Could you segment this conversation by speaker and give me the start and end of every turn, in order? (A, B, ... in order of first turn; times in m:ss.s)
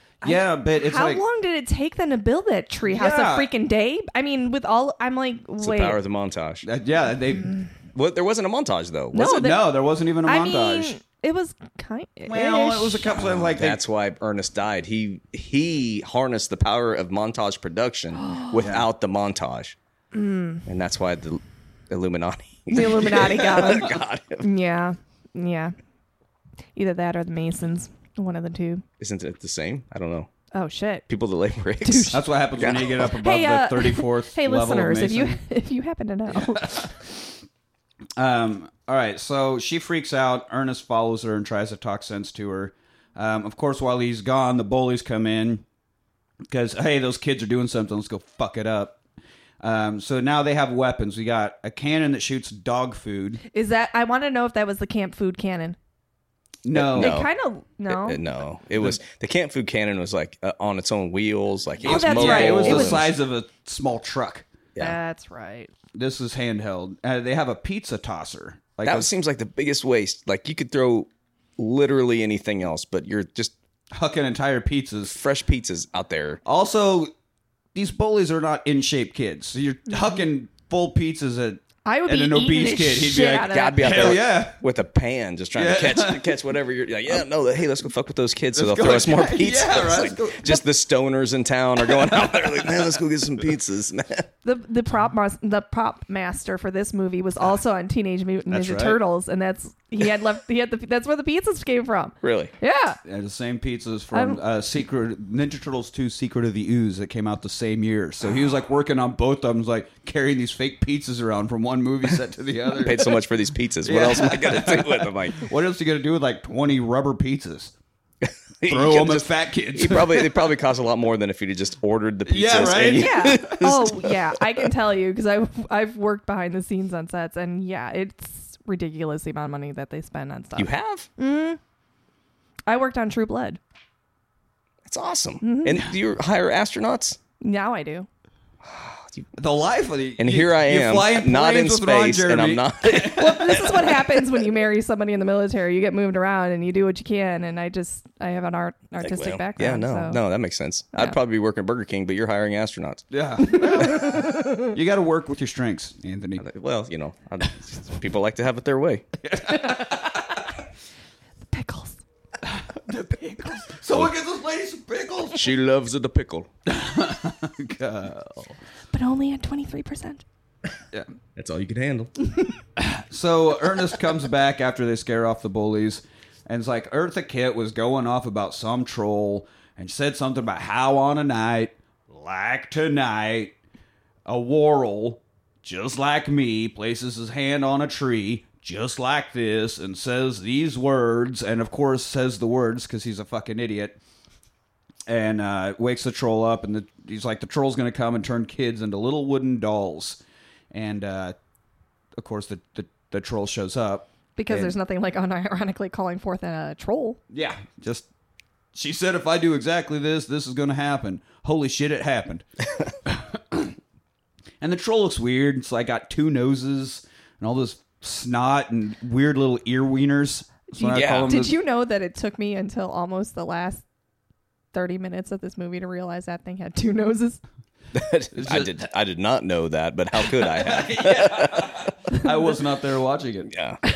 0:00.2-0:01.2 A
0:00.2-0:06.0 B
0:02.9-0:03.5 A
0:05.6-0:06.6 C
0:06.6-0:07.6 A
0:07.9-0:09.6 C
0:09.1-0:13.2 B
0:09.2-0:11.0 A
0:12.3-0:13.8 A
0:13.1-0:19.8 C
0:18.2-0:18.5 B
0:18.6-0:18.9 A
0:20.1-0:20.6 B
0:20.7-0:24.5 C
0:22.7-0:25.8 B
0:26.8-0:28.8 B
0:29.0-0:30.3 C
0:30.5-0:31.0 B
0:31.1-0:33.1 C
0:31.8-0:36.9 B
0:32.1-0:35.4 A
0:36.6-0:36.9 A
0:38.2-0:45.6 A
0:46.5-0:49.0 A
0:49.6-0:53.4 A
0:53.5-0:55.8 B
0:56.6-0:57.2 A
0:56.7-0:57.3 C
0:56.9-0:58.2 B
0:57.9-1:03.1 C
1:01.8-1:03.1 B
1:01.8-1:04.5 A
1:04.8-1:05.7 B
1:05.9-1:09.1 A
1:08.8-1:13.5 C
1:13.9-1:15.2 A
1:15.1-1:16.4 C
1:16.4-1:17.1 A
1:17.8-1:24.6 A
1:21.8-1:24.2 B
1:23.4-1:34.3 C
1:25.6-1:26.4 A
1:28.5-1:30.6 A
1:32.0-1:32.7 A
1:34.4-1:43.0 B
1:38.5-1:39.0 A
1:42.2-1:42.5 C
1:43.1-1:53.2 A
1:44.1-1:44.4 B
1:52.8-1:55.5 C
1:53.8-1:57.7 A
1:58.2-2:04.7 C
1:58.6-2:00.4 A
2:02.3-2:03.6 A
2:02.9-2:11.6 B
2:10.6-2:11.1 C
2:12.7-2:13.6 B
2:14.8-2:17.2 C
2:15.4-2:15.9 B
2:17.4-2:18.1 B
2:18.6-2:19.3 C
2:19.4-2:23.6 A
2:20.2-2:24.4 C
2:23.0-2:30.2 B
2:29.0-2:34.4 C
2:33.1-2:36.4 A
2:36.4-2:39.1 C
2:39.2-2:40.1 A
2:41.5-2:42.0 B
2:42.4-2:45.5 A
2:45.3-2:46.5 C
2:46.7-2:48.5 A
2:48.9-2:50.2 B
2:51.4-2:52.1 C
2:52.8-3:03.6 A
3:04.3-3:14.0 A
3:15.1-3:20.2 A
3:20.7-3:21.4 A
3:22.2-3:24.8 A
3:24.4-3:27.2 B
3:27.3-3:28.1 A
3:28.8-3:32.5 A
3:33.1-3:33.7 A
3:34.6-3:41.6 A
3:40.8-3:43.8 B
3:40.9-3:41.4 C
3:44.7-3:47.4 B
3:47.9-3:51.9 C
3:48.3-3:48.8 A
3:50.4-3:53.5 A
3:53.5-3:53.8 C